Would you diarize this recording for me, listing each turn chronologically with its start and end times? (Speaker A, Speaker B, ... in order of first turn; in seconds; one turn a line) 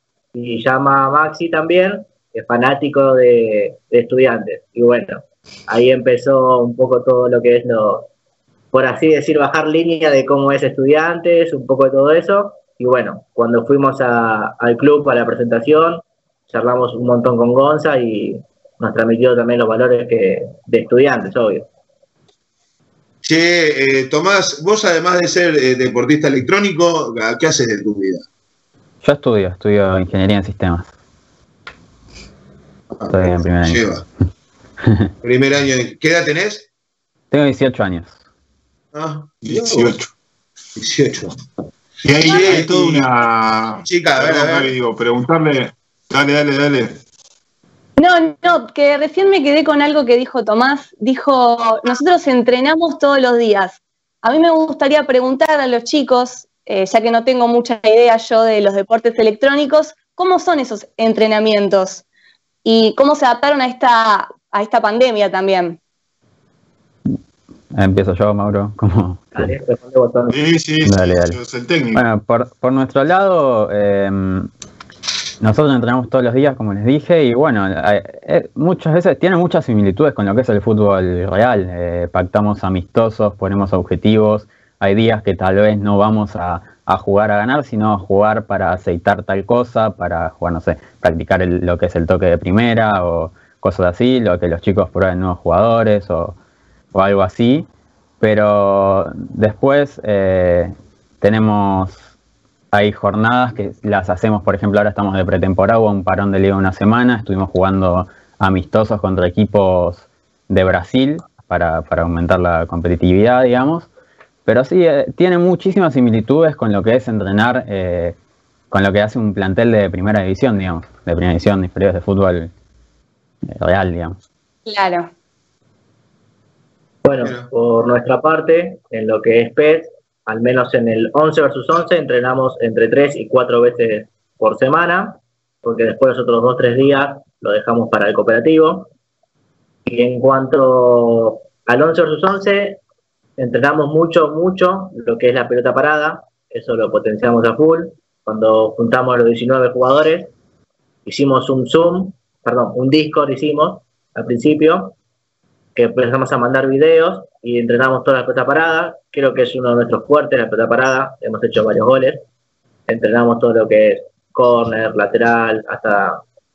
Speaker A: 0.3-8.1
Speaker A: 8.7-21.7
Speaker B: 23.2-28.2
Speaker C: 29.0-30.9
Speaker B: 33.0-34.0
Speaker C: 33.1-33.8
Speaker B: 35.2-36.7
Speaker C: 37.3-38.1
Speaker B: 38.9-39.9
Speaker D: 39.4-40.1
Speaker B: 40.8-41.4
Speaker D: 42.0-47.0
Speaker B: 42.2-43.1
Speaker B: 43.8-44.7
Speaker E: 48.0-62.0
Speaker E: 62.6-65.8
Speaker C: 67.7-69.5
Speaker A: 69.3-70.4
Speaker D: 70.3-72.0
Speaker C: 70.8-71.4
Speaker C: 71.9-74.5
Speaker C: 75.4-96.4
Speaker C: 96.9-97.7
Speaker C: 98.2-102.0
Speaker C: 102.7-113.9
Speaker C: 114.5-118.2
Speaker C: 118.7-122.5
Speaker C: 123.5-124.2
Speaker E: 124.7-125.1
Speaker A: 127.0-138.9
Speaker B: 127.2-127.5
Speaker A: 139.9-142.8
Speaker A: 143.4-150.3
Speaker A: 151.1-155.0
Speaker A: 155.8-162.3
Speaker A: 162.9-166.2